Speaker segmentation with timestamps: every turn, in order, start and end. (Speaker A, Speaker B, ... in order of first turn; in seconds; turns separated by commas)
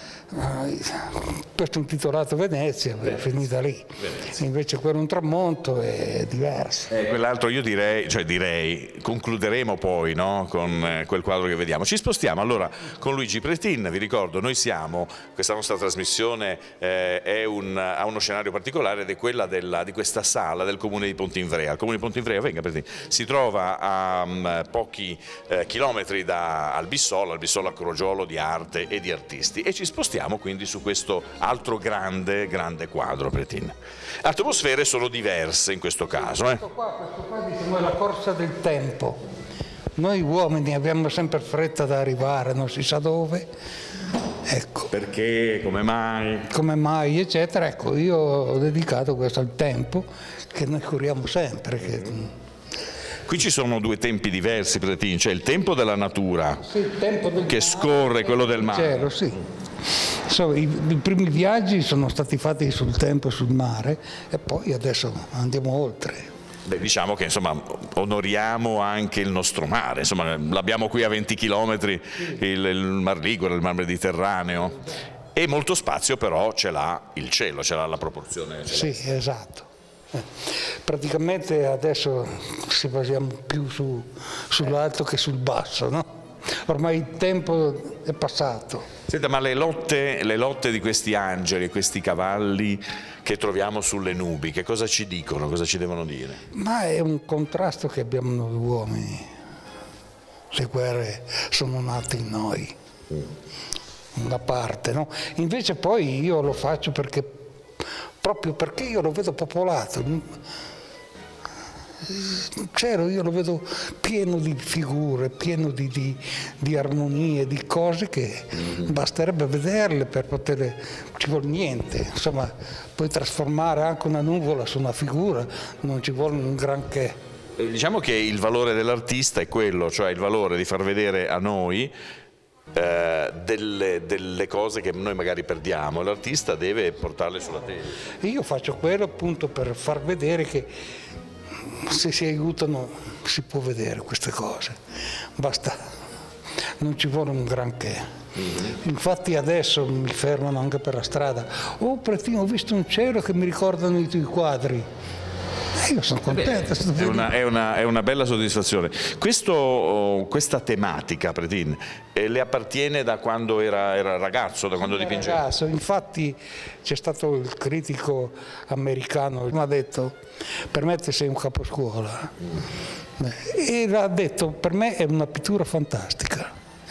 Speaker A: 0.3-6.9, Speaker B: 6.9-36.6, Speaker A: 36.2-39.2, Speaker A: 40.0-43.5, Speaker A: 44.5-44.9, Speaker B: 44.9-46.5, Speaker A: 46.5-52.3, Speaker B: 51.8-52.2, Speaker B: 53.2-56.6, Speaker A: 56.6-59.4, Speaker B: 57.4-59.1, Speaker A: 60.0-66.3, Speaker B: 66.7-79.0, Speaker A: 78.7-86.1, Speaker A: 86.6-88.9, Speaker B: 89.1-96.4, Speaker A: 96.5-99.3, Speaker A: 100.5-102.8, Speaker A: 104.2-107.4, Speaker A: 108.2-110.4, Speaker A: 112.0-127.2, Speaker B: 127.6-131.9, Speaker B: 132.7-138.0, Speaker A: 138.2-140.7, Speaker A: 141.6-144.8, Speaker A: 145.4-145.9, Speaker A: 146.8-148.0, Speaker A: 148.6-154.9, Speaker A: 155.8-157.3, Speaker B: 156.3-165.4, Speaker A: 164.8-170.2, Speaker A: 170.7-172.5, Speaker A: 173.2-176.5